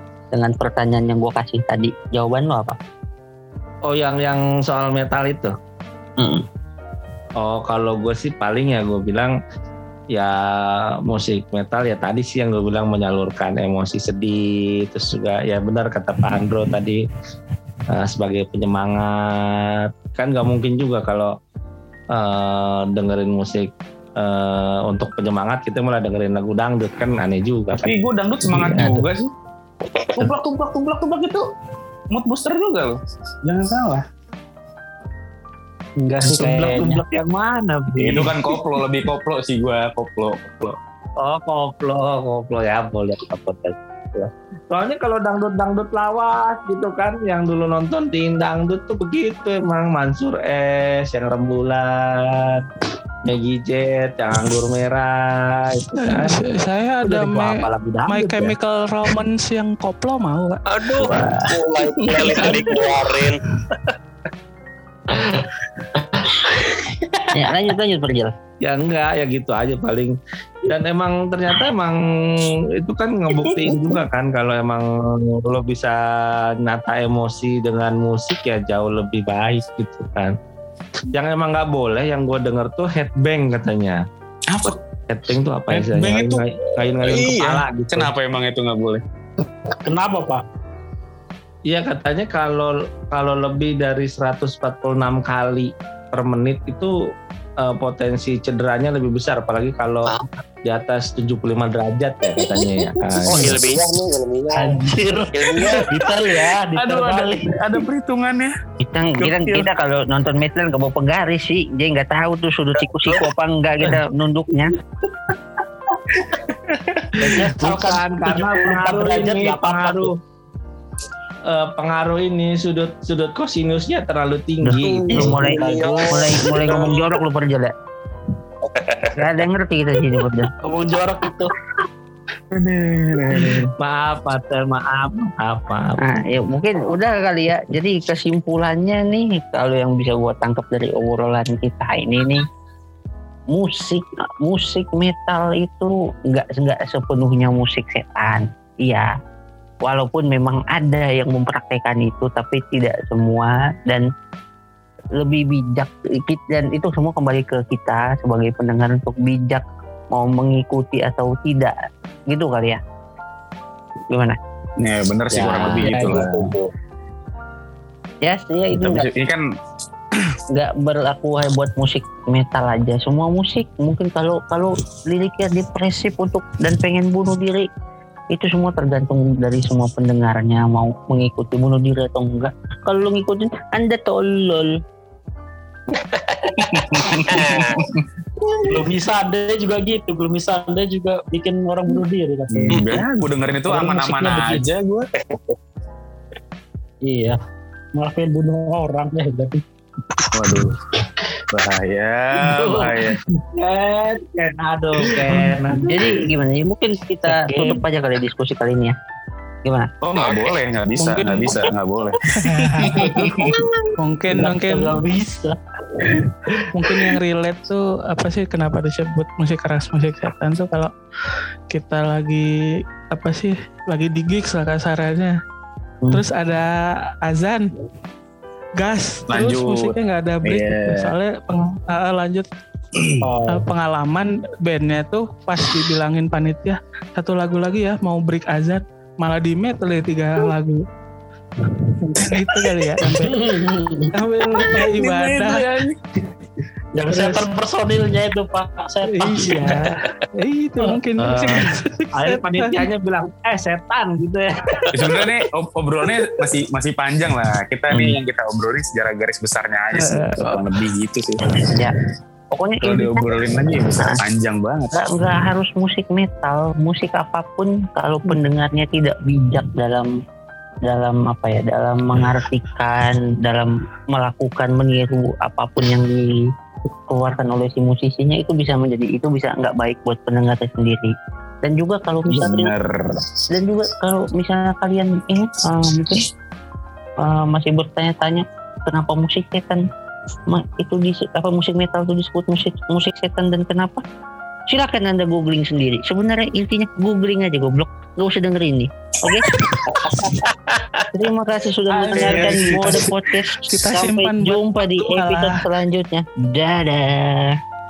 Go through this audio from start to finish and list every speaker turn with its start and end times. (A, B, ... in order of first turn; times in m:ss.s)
0:00.3-0:02.8 A
0:03.9-0:05.5 B
0:06.2-0:06.4 A
0:07.4-0:09.4 B
0:10.1-0:17.0 B
0:17.9-0:21.3 B
0:22.1-0:28.0 B
0:27.8-0:29.3 C
0:28.5-0:28.9 B
0:30.1-0:31.4 C
0:32.1-0:34.0 C
0:36.0-0:37.0 D
0:36.2-0:38.6 B
0:38.0-0:40.8 C
0:41.2-0:52.6 B
0:53.2-0:56.4 B
0:56.0-1:01.4 E
0:57.0-0:58.5 B
1:00.7-1:03.4 F
1:01.1-1:01.5 C
1:02.0-1:02.6 C
1:02.4-1:02.8 E
1:07.3-1:08.3 A
1:08.6-1:10.1 B
1:10.6-1:20.3 B
1:21.1-1:24.0 B
1:24.5-1:24.8 C
1:24.6-1:28.1 B
1:25.7-1:29.0 C
1:29.8-1:30.4 D
1:31.7-1:36.9 B
1:37.6-1:40.1 B
1:40.1-1:40.4 F
1:40.6-1:43.6 B
1:42.4-1:43.5 C
1:43.2-1:46.0 F
1:44.5-1:47.8 D
1:46.7-1:48.5 C
1:48.8-1:54.7 A
1:49.2-1:49.6 C
1:56.2-1:57.3 C
1:57.2-2:00.1 B
1:57.2-2:00.1 D
2:01.5-2:06.9 B
2:04.6-2:07.7 A
2:05.1-2:07.2 F
2:08.6-2:09.4 F
2:09.2-2:10.5 A
2:10.6-2:11.5 D
2:12.5-2:13.7 C
2:13.3-2:16.0 B
2:16.0-2:22.4 A
2:23.5-2:29.1 A
2:29.8-2:34.0 A
2:35.2-2:41.7 A
2:42.3-2:42.8 A
2:44.1-2:44.4 A
2:44.8-2:46.5 C
2:45.3-2:46.7 D
2:48.2-2:49.0 A
2:48.8-2:49.4 C
2:50.5-2:57.7 A
2:58.3-3:04.8 A
3:05.9-3:07.9 F
3:06.6-3:08.5 C
3:08.7-3:12.9 D
3:12.5-3:15.1 C
3:12.7-3:13.0 F
3:13.6-3:14.6 D
3:15.3-3:15.5 F
3:17.0-3:17.4 D
3:18.0-3:19.6 D
3:20.3-3:20.8 C
3:21.5-3:23.2 C
3:22.5-3:23.0 D
3:23.5-3:25.9 B
3:25.1-3:26.1 D
3:25.9-3:28.9 A
3:27.2-3:27.8 D
3:29.6-3:29.9 A
3:30.0-3:33.6 C
3:30.1-3:30.6 F
3:31.0-3:31.5 E
3:32.3-3:33.2 E
3:32.8-3:33.6 D
3:34.0-3:35.0 E
3:34.3-3:35.6 D
3:36.6-3:37.0 D
3:36.7-3:40.9 E
3:41.7-3:42.5 E
3:43.1-3:45.4 E
3:46.1-3:46.7 E
3:47.2-3:47.7 E
3:48.8-3:52.4 E
3:49.3-3:51.1 C
3:53.0-3:53.2 C
3:53.2-3:53.6 D
3:53.5-4:00.8 E
4:02.0-4:03.5 E
4:02.2-4:02.5 C
4:03.0-4:04.1 D
4:04.1-4:05.7 E
4:04.6-4:06.0 C
4:06.9-4:09.9 D
4:07.1-4:07.5 E
4:09.0-4:12.8 E
4:11.2-4:14.9 B
4:14.8-4:15.3 F
4:14.9-4:21.8 C
4:17.9-4:18.2 A
4:19.9-4:20.6 E
4:21.7-4:21.9 A
4:22.5-4:24.2 A
4:22.8-4:25.0 C
4:24.9-4:30.1 A
4:30.8-4:36.4 A
4:37.1-4:41.1 A
4:41.6-4:42.7 A
4:42.3-4:43.3 C
4:43.5-4:46.2 A
4:47.2-4:49.8 A
4:50.5-4:54.0 A
4:54.7-4:59.5 A
4:59.9-5:00.8 F
5:01.1-5:07.6 A
5:02.1-5:03.0 D
5:02.1-5:03.1 C
5:02.3-5:05.6 E